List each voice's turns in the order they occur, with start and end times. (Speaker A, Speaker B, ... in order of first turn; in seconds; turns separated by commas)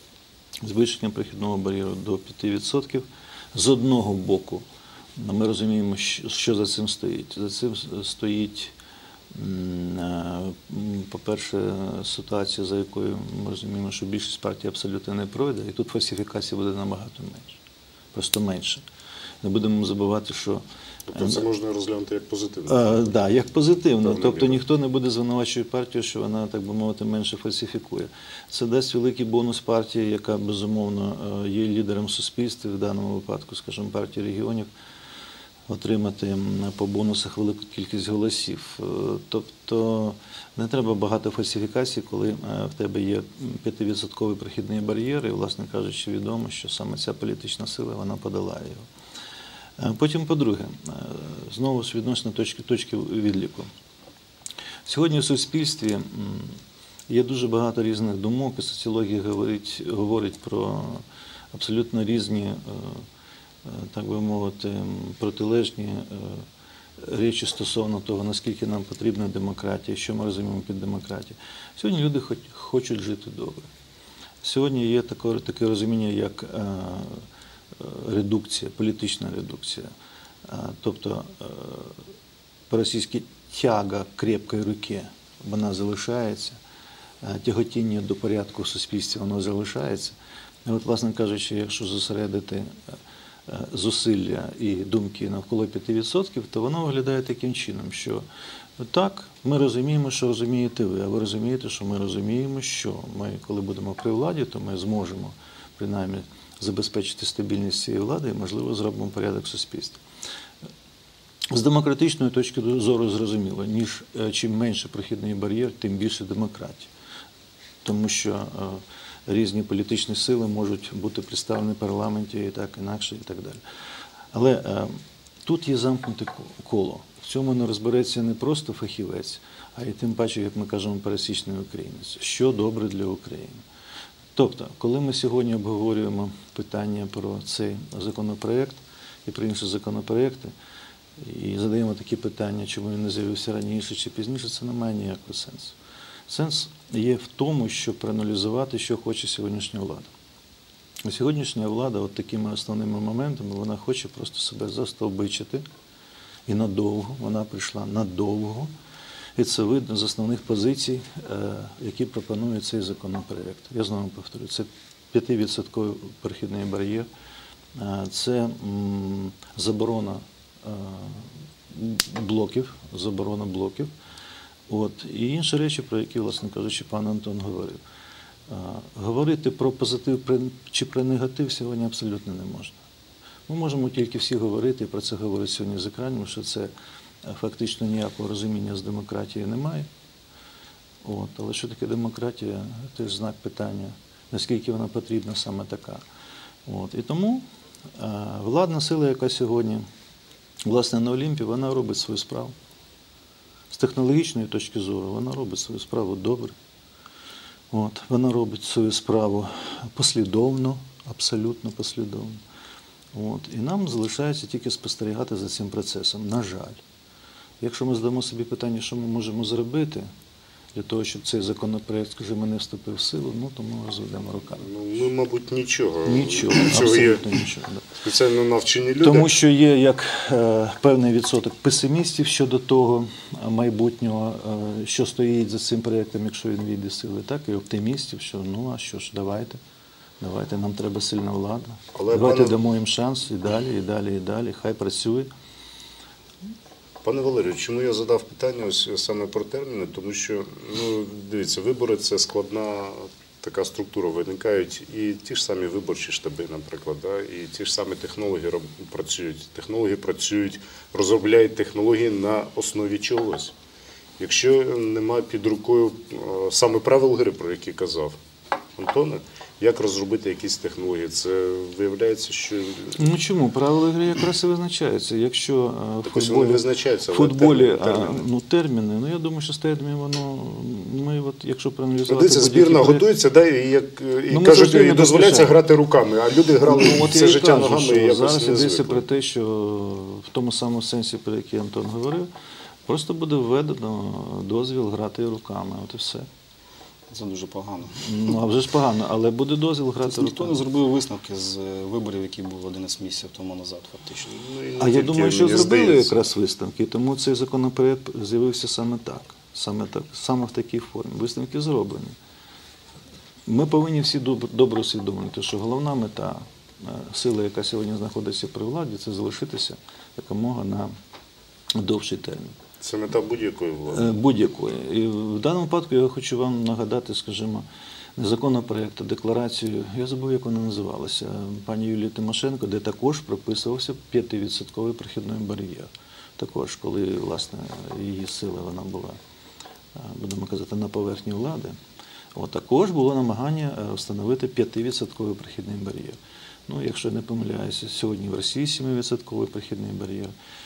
Speaker A: 0.6-4.6, Speaker A: 5.2-8.7, Speaker A: 9.3-17.6, Speaker A: 18.1-18.8, Speaker A: 19.4-21.4, Speaker B: 21.1-22.8, Speaker A: 22.7-34.7, Speaker B: 24.0-24.6, Speaker A: 35.7-48.9, Speaker A: 49.8-53.7, Speaker A: 54.9-63.0, Speaker A: 63.6-66.5, Speaker A: 67.0-73.7, Speaker A: 74.4-77.2, Speaker A: 77.8-79.9, Speaker A: 80.5-82.0, Speaker A: 82.7-86.6, Speaker A: 87.2-92.7, Speaker A: 93.5-98.2, Speaker A: 98.8-110.0, Speaker A: 111.5-116.9, Speaker A: 117.8-123.6, Speaker A: 124.3-133.6, Speaker A: 134.3-140.5, Speaker A: 141.2-145.8, Speaker A: 146.3-150.1, Speaker A: 151.0-155.6, Speaker A: 156.5-158.7, Speaker A: 159.3-167.1, Speaker A: 167.8-173.9, Speaker A: 174.7-177.8, Speaker A: 178.5-182.8, Speaker A: 183.5-186.7, Speaker A: 187.2-189.9, Speaker A: 191.0-196.0, Speaker A: 196.7-197.4, Speaker A: 197.9-199.8, Speaker A: 200.6-202.5, Speaker A: 203.7-206.5, Speaker A: 207.7-212.4, Speaker A: 213.1-216.8, Speaker A: 217.6-220.1, Speaker A: 220.7-224.6, Speaker B: 224.6-227.3, Speaker A: 226.1-227.8, Speaker B: 228.0-229.3, Speaker A: 229.0-239.6, Speaker A: 240.2-245.3, Speaker B: 241.9-242.6, Speaker B: 247.0-263.5, Speaker B: 264.2-268.1, Speaker B: 268.8-273.1, Speaker A: 273.0-283.1, Speaker B: 276.0-278.2, Speaker B: 282.0-289.0, Speaker A: 284.3-285.6, Speaker A: 286.6-292.3, Speaker A: 292.9-296.3, Speaker C: 297.1-298.3, Speaker A: 297.9-300.6, Speaker C: 300.0-304.3, Speaker B: 304.3-306.2, Speaker A: 304.8-312.1, Speaker A: 313.5-320.9, Speaker A: 321.8-322.6, Speaker B: 322.8-324.1, Speaker A: 323.9-327.6, Speaker A: 328.2-339.2, Speaker A: 339.9-341.8, Speaker A: 342.3-350.3